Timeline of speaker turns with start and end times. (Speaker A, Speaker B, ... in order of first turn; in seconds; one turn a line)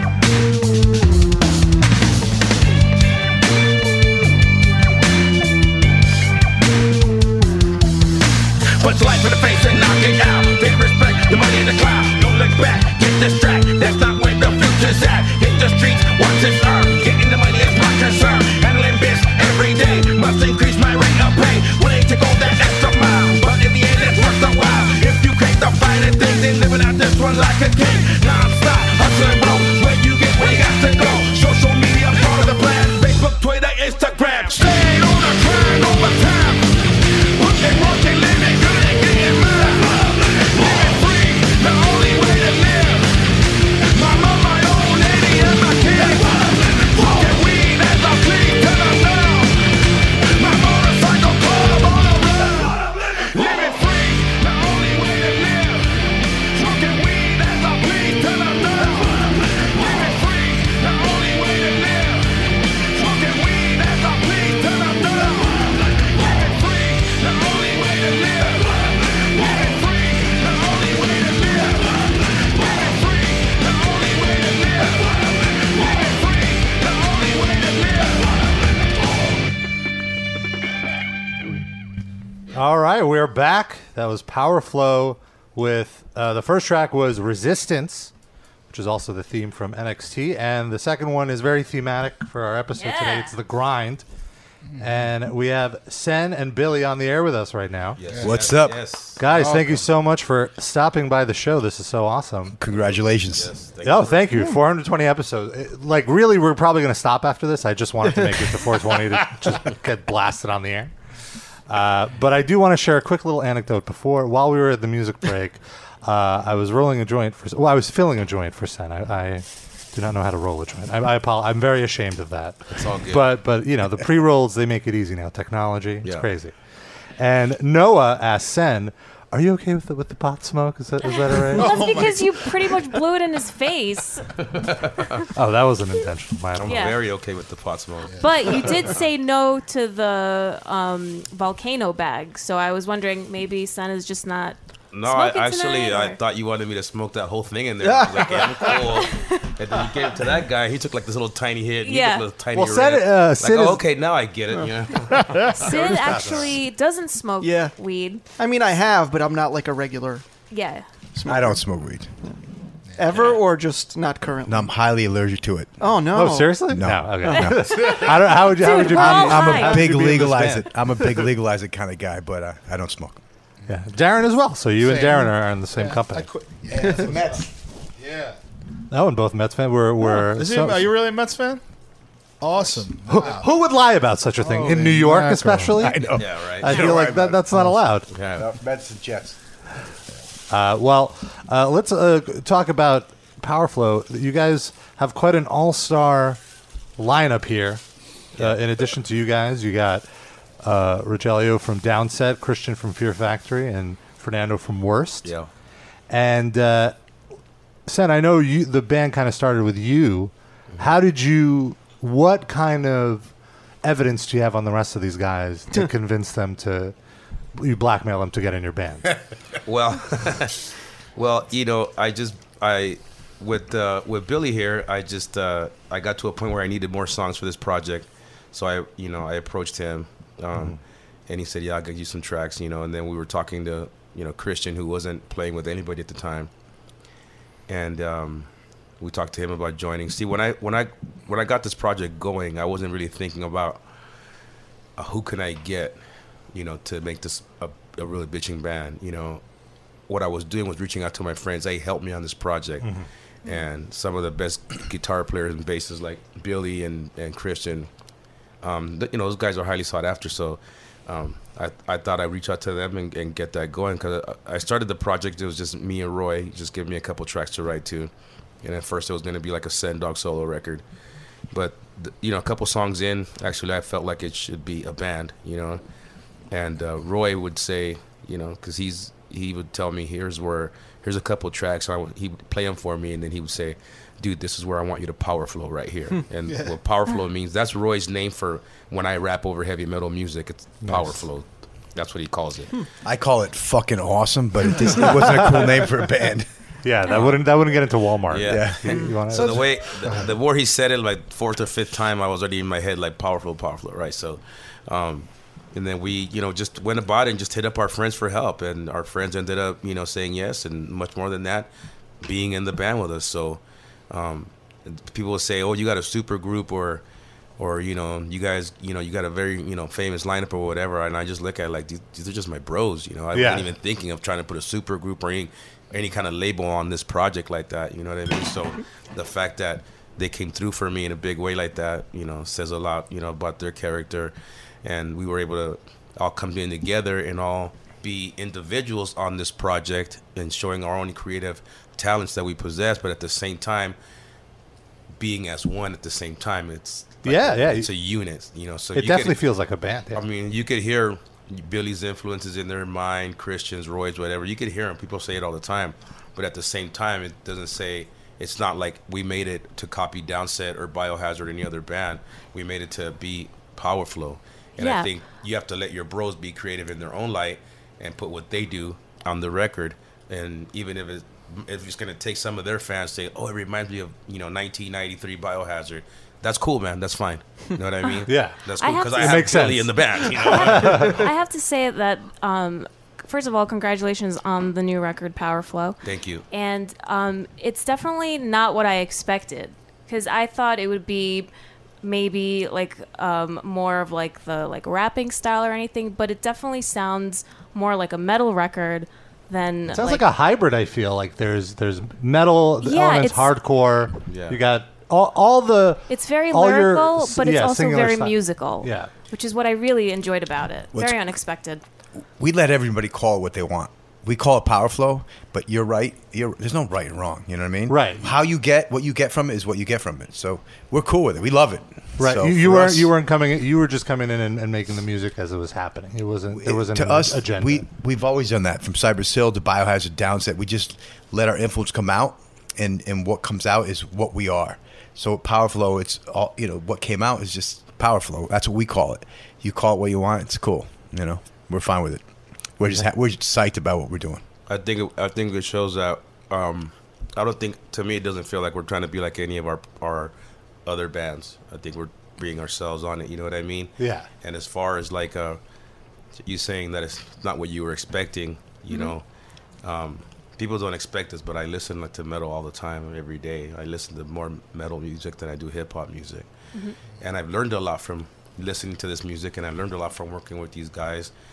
Speaker A: 8.8-11.2
Speaker A: 12.2-14.3
Speaker A: 14.9-16.6
Speaker A: 18.8-19.4
Speaker A: 21.9-22.4
Speaker B: 26.1-26.7
Speaker A: 28.9-32.3
Speaker B: 30.3-31.1
Speaker B: 32.6-34.6
Speaker A: 34.8-36.1
Speaker A: 40.7-43.0
Speaker A: 44.2-46.3
Speaker A: 47.0-49.5
Speaker A: 50.4-55.8
Speaker A: 56.5-59.1
Speaker A: 59.7-62.2
Speaker A: 63.0-65.6
Speaker A: 66.2-71.8
Speaker A: 72.6-75.1
Speaker A: 75.7-78.2
Speaker C: 82.5-88.1
Speaker C: 88.7-94.0
Speaker D: 92.7-93.4
Speaker C: 94.8-98.0
Speaker B: 98.0-99.2
Speaker E: 98.2-98.9
Speaker C: 99.2-102.6
Speaker F: 99.3-99.8
Speaker E: 102.6-103.5
Speaker B: 102.7-104.4
Speaker C: 103.8-110.9
Speaker C: 111.7-126.5
Speaker B: 122.7-123.4
Speaker C: 127.2-132.1
Speaker D: 131.0-134.3
Speaker F: 131.6-132.1
Speaker B: 134.6-135.2
Speaker C: 135.3-136.9
Speaker B: 136.6-138.8
Speaker D: 136.6-137.0
Speaker D: 138.2-146.2
Speaker B: 144.9-155.6
Speaker G: 147.9-148.6
Speaker D: 148.9-149.4
Speaker D: 151.8-152.3
Speaker C: 152.5-153.8
Speaker D: 155.4-158.2
Speaker C: 155.8-156.6
Speaker G: 157.4-157.7
Speaker G: 158.4-160.2
Speaker D: 160.5-160.8
Speaker G: 161.1-161.6
Speaker E: 161.2-162.1
Speaker G: 162.9-164.7
Speaker E: 164.5-165.8
Speaker G: 165.8-166.7
Speaker C: 166.1-171.2
Speaker E: 166.7-168.1
Speaker D: 168.5-169.8
Speaker E: 168.7-173.2
Speaker C: 173.7-176.3
Speaker F: 174.8-177.4
Speaker E: 176.7-177.5
Speaker F: 178.0-178.4
Speaker C: 178.9-180.9
Speaker F: 180.1-181.6
Speaker F: 182.4-183.5
Speaker C: 183.1-188.1
Speaker F: 184.4-185.9
Speaker E: 185.8-189.4
Speaker B: 186.2-186.8
Speaker B: 188.1-188.5
Speaker C: 190.5-196.4
Speaker C: 197.0-197.8
Speaker C: 198.3-200.1
Speaker C: 200.6-205.3
Speaker B: 205.2-205.5
Speaker C: 206.1-206.9
Speaker C: 207.8-216.9
Speaker C: 217.5-219.1
Speaker B: 219.7-220.6
Speaker B: 221.2-236.5
Speaker B: 237.7-238.5
Speaker B: 239.0-243.8
Speaker B: 245.0-246.0
Speaker B: 246.5-249.4
Speaker B: 250.1-257.9
Speaker B: 258.6-268.1
Speaker B: 268.6-270.8
Speaker B: 271.5-275.8
Speaker B: 276.5-292.7
Speaker F: 286.5-286.8
Speaker C: 290.8-291.1
Speaker E: 293.0-296.5
Speaker C: 296.8-299.6
Speaker B: 298.3-311.7
Speaker E: 298.4-299.6
Speaker B: 312.2-317.0
Speaker B: 317.6-343.9
Speaker C: 323.3-323.8
Speaker B: 345.2-349.4
Speaker C: 347.2-347.9
Speaker C: 348.9-350.2
Speaker B: 350.1-381.1
Speaker D: 364.8-365.1
Speaker C: 378.2-381.2
Speaker D: 378.8-379.7
Speaker D: 380.3-391.5
Speaker B: 386.0-386.4
Speaker D: 392.0-400.2
Speaker C: 399.9-409.1
Speaker D: 402.8-403.5
Speaker B: 404.3-404.6
Speaker D: 406.1-411.8
Speaker E: 410.9-411.2
Speaker E: 412.4-423.1
Speaker C: 417.9-418.3
Speaker C: 422.2-427.8
Speaker E: 426.5-442.2
Speaker E: 442.8-444.4
Speaker B: 444.7-450.3
Speaker B: 450.9-455.6
Speaker C: 454.0-454.3
Speaker B: 456.4-459.2
Speaker D: 458.9-459.1
Speaker B: 459.8-466.5
Speaker B: 467.2-471.3